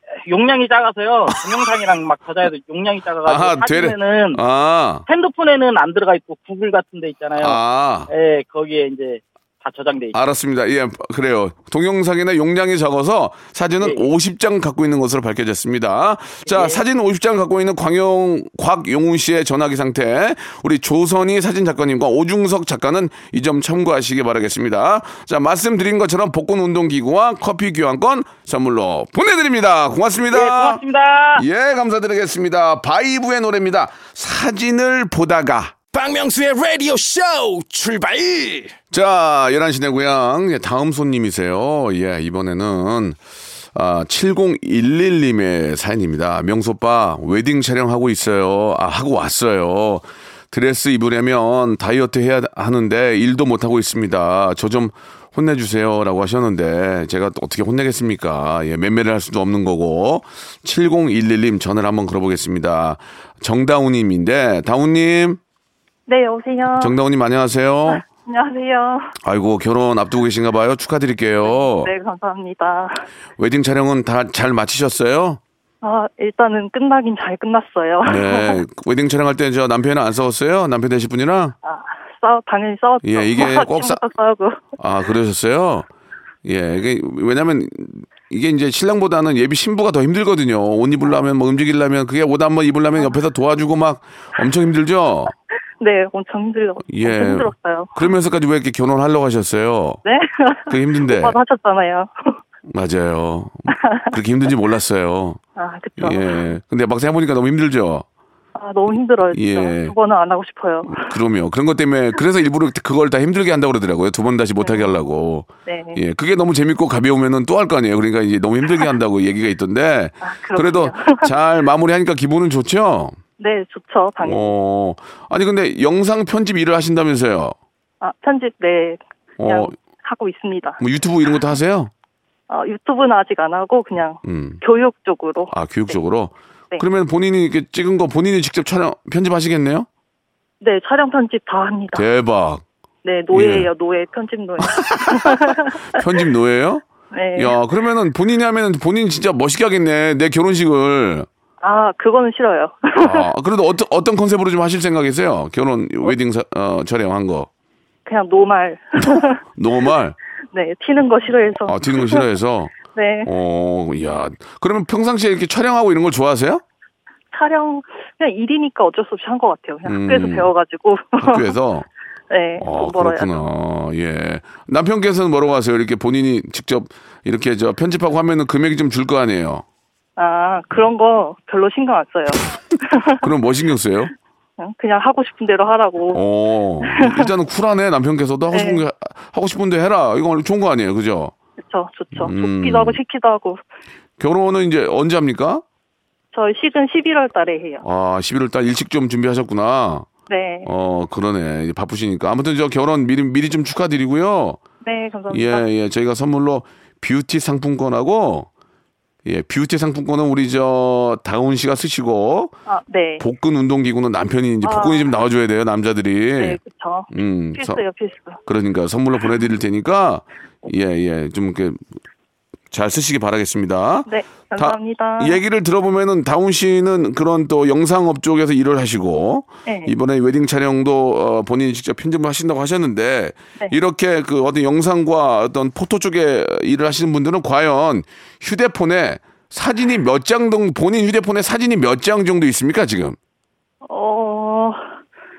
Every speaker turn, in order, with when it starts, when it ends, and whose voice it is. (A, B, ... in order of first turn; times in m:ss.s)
0:00.2-0:04.4 A
0:03.3-0:05.0 B
0:05.1-0:10.2 A
0:07.4-0:08.1 B
0:10.1-0:30.8 B
0:13.8-0:14.1 A
0:16.4-0:16.8 A
0:30.3-0:31.4 A
0:31.4-0:35.8 B
0:35.9-0:38.7 C
0:38.9-0:43.2 B
0:43.7-1:05.4 B
1:06.1-1:07.0 D
1:06.8-1:08.0 B
1:07.9-1:09.1 D
1:09.2-1:11.9 B
1:11.4-1:13.1 D
1:13.4-1:15.4 B
1:15.8-1:18.6 D
1:18.0-1:21.6 B
1:21.6-1:24.6 D
1:23.0-1:24.0 B
1:24.8-1:25.9 B
1:26.4-1:35.3 B
1:35.8-1:38.0 D
1:36.9-1:40.0 B
1:40.0-1:42.4 D
1:40.7-1:41.4 B
1:42.7-1:45.4 B
1:43.7-1:44.1 D
1:45.6-1:46.4 D
1:46.0-1:48.0 B
1:48.6-1:51.2 D
1:49.3-1:49.9 B
1:50.9-2:03.2 B
1:54.6-1:55.0 D
1:55.6-1:56.0 D
2:00.2-2:01.3 D
2:03.4-2:04.5 D
2:04.2-2:07.6 B
2:08.0-2:10.8 D
2:09.4-2:09.7 B
2:10.8-2:11.9 B
2:12.5-2:16.0 D
2:14.2-2:14.6 B
2:15.5-2:19.9 B
2:20.6-2:22.1 D
2:21.9-2:22.6 B
2:23.0-2:26.0 D
2:23.3-2:23.7 B
2:24.6-2:31.3 B
2:27.1-2:27.6 D
2:31.6-2:33.3 D
2:33.0-2:37.5 B
2:38.1-2:39.4 D
2:39.0-2:40.2 B
2:40.5-2:42.2 D
2:41.6-2:46.6 B
2:42.8-2:43.3 D
2:47.3-2:51.5 D
2:49.9-2:50.5 B
2:51.2-2:51.9 B
2:52.3-2:53.4 D
2:52.6-2:59.6 B
3:00.2-3:03.3 D
3:03.2-3:04.1 B
3:04.6-3:06.2 D
3:06.1-3:11.3 B
3:06.8-3:07.3 D
3:08.5-3:08.8 D
3:11.6-3:13.6 D
3:12.2-3:13.0 B
3:14.2-3:15.6 B
3:16.3-3:17.8 D
3:17.8-3:20.1 B
3:20.3-3:20.7 D
3:20.6-3:24.6 B
3:24.8-3:25.6 D
3:25.3-3:28.5 B
3:29.2-3:32.6 B
3:32.7-3:33.2 D
3:33.2-3:36.6 B
3:34.6-3:35.1 D
3:36.4-3:38.4 D
3:37.1-3:37.8 B
3:38.5-3:41.8 B
3:42.7-4:03.2 B
3:44.1-3:45.4 D
3:49.7-3:49.9 D
4:03.8-4:05.0 D